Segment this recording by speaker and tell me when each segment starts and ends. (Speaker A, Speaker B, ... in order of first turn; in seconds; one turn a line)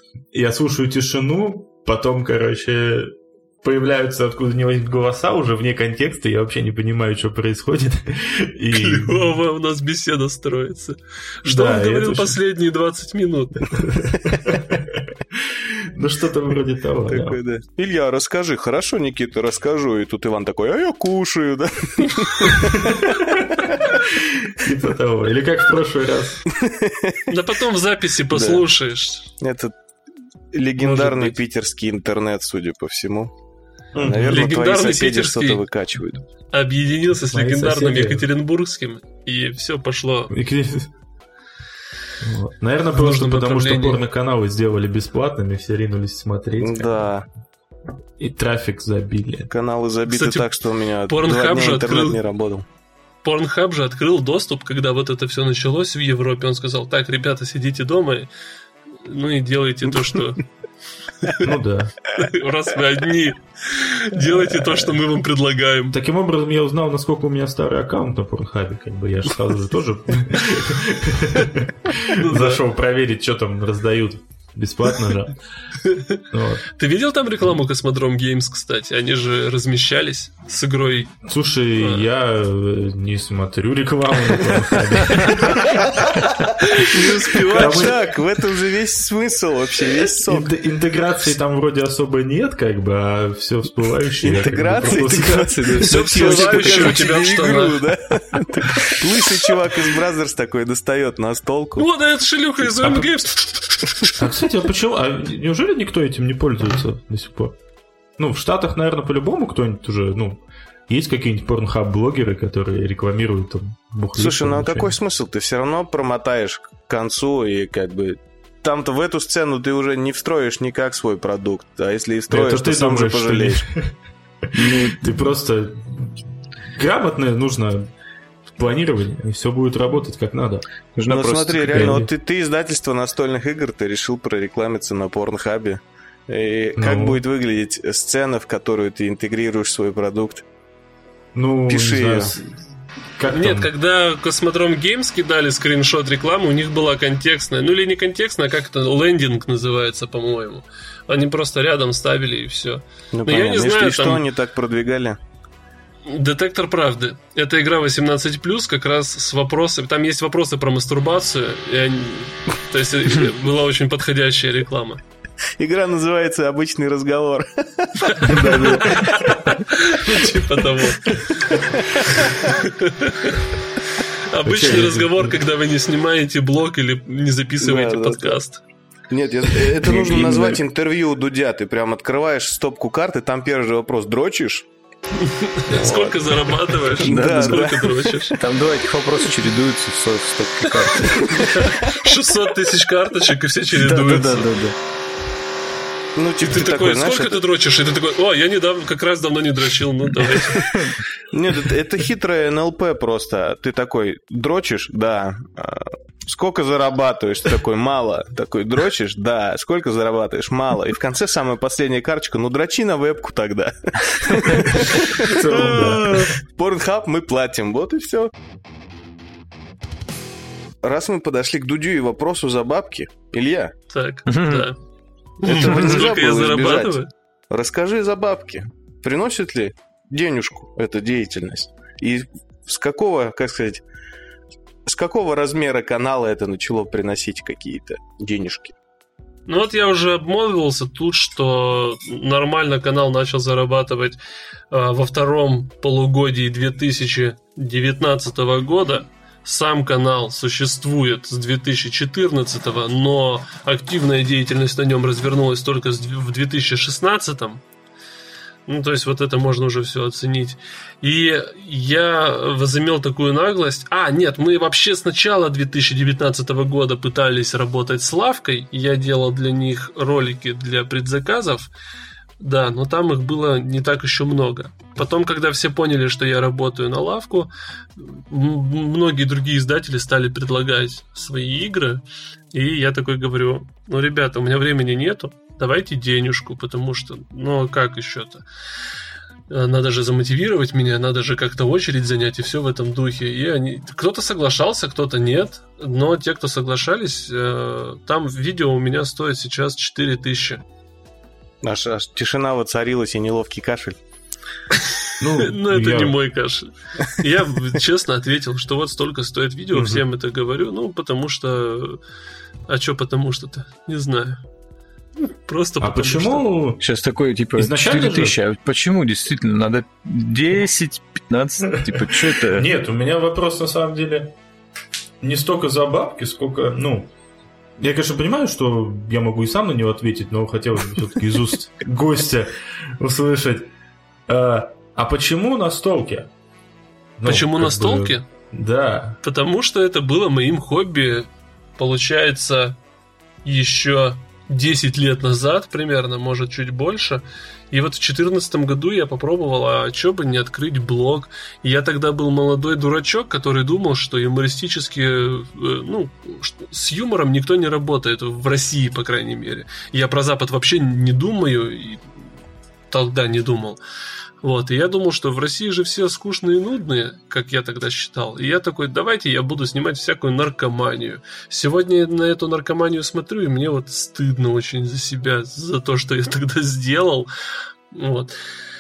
Speaker A: 0.3-9.3
Speaker B: 8.7-13.9
Speaker A: 11.4-12.4
Speaker A: 13.8-17.4
Speaker C: 17.1-23.0
Speaker A: 22.7-26.5
Speaker C: 26.5-27.3
Speaker B: 27.3-29.3
Speaker C: 28.3-28.6
Speaker C: 29.4-29.8
Speaker C: 30.5-33.3
Speaker B: 30.8-31.4
Speaker A: 34.0-34.4
Speaker C: 34.0-36.2
Speaker B: 34.2-35.6
Speaker B: 36.5-40.3
Speaker A: 37.3-38.3
Speaker A: 40.3-40.9
Speaker A: 42.2-46.9
Speaker B: 43.0-44.0
Speaker C: 46.6-47.3
Speaker A: 48.2-49.5
Speaker C: 49.5-52.6
Speaker B: 50.1-50.5
Speaker B: 51.1-52.2
Speaker B: 53.2-58.3
Speaker B: 59.0-60.4
Speaker B: 61.2-61.5
Speaker A: 61.4-62.1
Speaker B: 62.1-66.0
Speaker A: 65.9-75.4
Speaker B: 72.1-72.6
Speaker B: 75.8-76.2
Speaker A: 76.3-76.7
Speaker B: 76.7-81.2
Speaker A: 81.2-86.9
Speaker B: 81.8-82.0
Speaker B: 85.2-88.0
Speaker C: 86.9-90.5
Speaker A: 87.5-88.0
Speaker A: 90.3-97.0
Speaker C: 94.2-101.9
Speaker B: 95.8-98.0
Speaker B: 101.8-104.2
Speaker A: 102.8-103.1
Speaker A: 104.0-107.6
Speaker A: 108.2-114.9
Speaker C: 114.2-123.7
Speaker A: 122.3-123.9
Speaker D: 124.5-125.0
Speaker A: 124.6-127.9
Speaker A: 128.6-130.7
Speaker D: 131.0-132.0
Speaker C: 131.1-140.4
Speaker A: 131.7-132.1
Speaker A: 136.8-137.2
Speaker A: 141.3-142.5
Speaker C: 141.7-142.3
Speaker A: 143.2-143.7
Speaker B: 143.3-154.2
Speaker C: 153.1-155.2
Speaker B: 156.1-165.0
Speaker C: 165.6-169.3
Speaker B: 168.3-173.4
Speaker C: 170.1-170.3
Speaker C: 171.7-172.5
Speaker B: 174.3-178.6
Speaker A: 174.4-175.3
Speaker C: 177.6-178.4
Speaker C: 179.1-184.7
Speaker D: 179.8-180.6
Speaker B: 185.2-188.4
Speaker C: 185.7-188.4
Speaker D: 187.1-187.7
Speaker D: 188.3-191.7
Speaker C: 191.3-191.9
Speaker B: 191.5-194.5
Speaker C: 193.7-194.8
Speaker C: 196.2-197.4
Speaker B: 196.4-200.9
Speaker C: 201.3-218.3
Speaker A: 214.7-216.3
Speaker B: 215.9-216.2
Speaker C: 220.8-223.7
Speaker B: 223.9-224.8
Speaker D: 224.3-224.7
Speaker C: 225.4-233.8
Speaker B: 225.4-227.1
Speaker C: 234.9-238.8
Speaker B: 239.5-244.2
Speaker B: 244.7-257.6
Speaker B: 258.7-271.7
Speaker B: 272.4-288.4
Speaker B: 289.5-300.6
Speaker C: 301.6-304.0
Speaker A: 305.2-306.2
Speaker B: 305.4-312.0
Speaker C: 309.7-310.0
Speaker B: 312.7-314.4
Speaker B: 315.2-316.4
Speaker A: 315.8-316.8
Speaker D: 316.8-322.7
Speaker A: 317.6-318.4
Speaker A: 321.9-324.4
Speaker A: 325.2-327.1
Speaker A: 327.8-333.7
Speaker A: 334.3-336.3
Speaker A: 337.2-339.2
Speaker B: 337.2-338.2
Speaker B: 339.2-342.8
Speaker B: 343.4-362.2
Speaker B: 362.9-363.8
Speaker B: 364.4-377.3
Speaker B: 377.9-378.4